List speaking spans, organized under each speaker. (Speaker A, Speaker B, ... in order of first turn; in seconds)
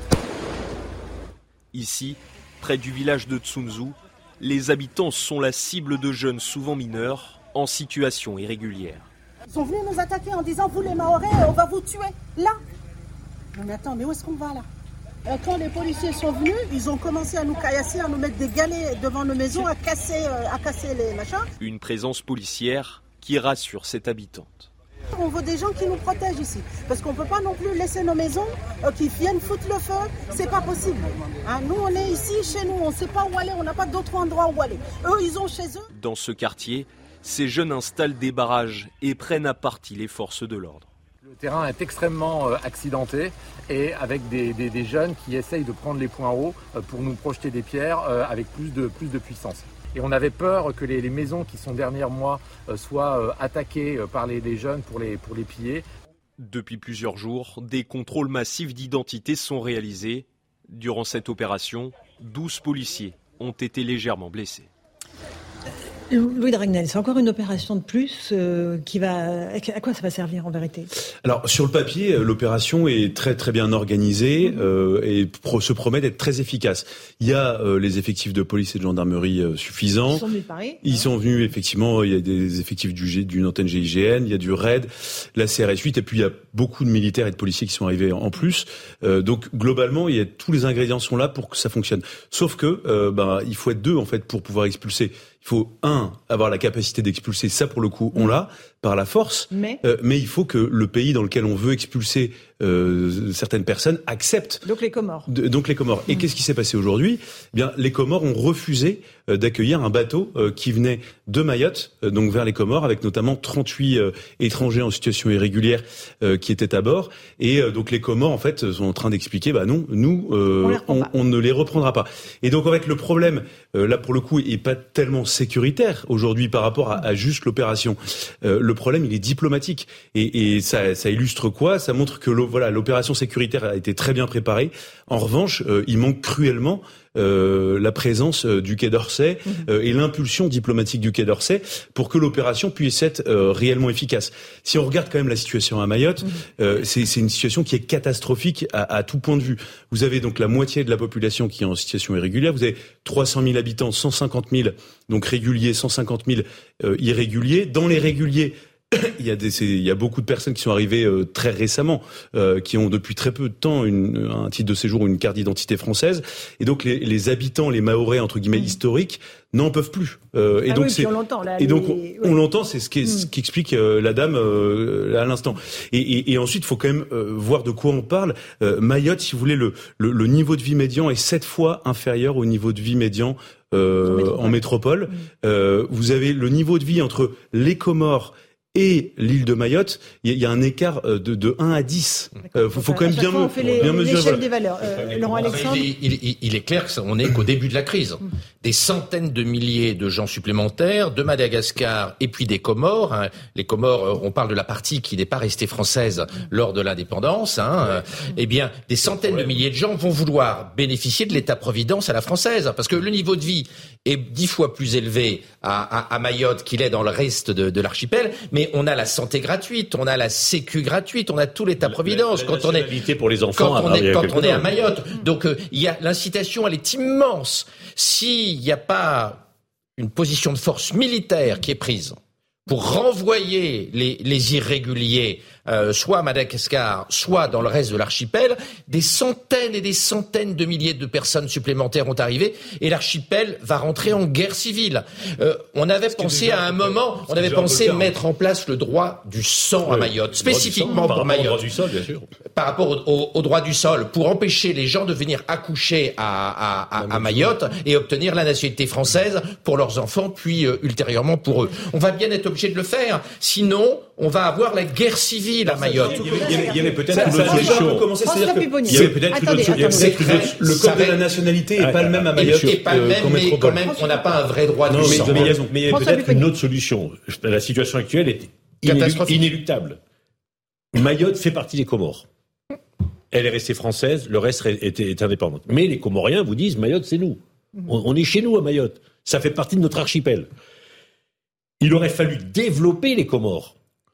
Speaker A: 1.7-9.1, 21.6-24.7, 35.9-40.9, 56.4-64.7
Speaker B: 9.5-12.6, 13.6-14.7, 15.3-21.5, 25.1-35.8
Speaker C: 41.4-55.8
Speaker D: 66.1-70.9, 80.1-81.1, 99.5-99.8, 104.6-105.3, 120.6-121.1, 170.7-172.4, 184.1-184.6, 192.5-195.9, 266.2-270.5, 275.9-276.5
Speaker E: 71.2-80.2, 80.8-104.6, 105.3-194.4, 266.0-274.0, 274.9-275.8
Speaker F: 193.6-194.2, 194.8-195.8, 209.1-209.6, 221.8-224.7, 247.5-248.1, 249.8-252.3, 265.7-268.1, 268.9-270.5, 271.8-272.8, 274.9-280.0, 280.9-282.3, 283.3-290.5, 291.8-293.8
Speaker G: 195.4-222.9, 223.5-229.4, 230.0-251.7, 252.5-266.6, 269.9-271.2, 272.3-275.6, 278.8-279.5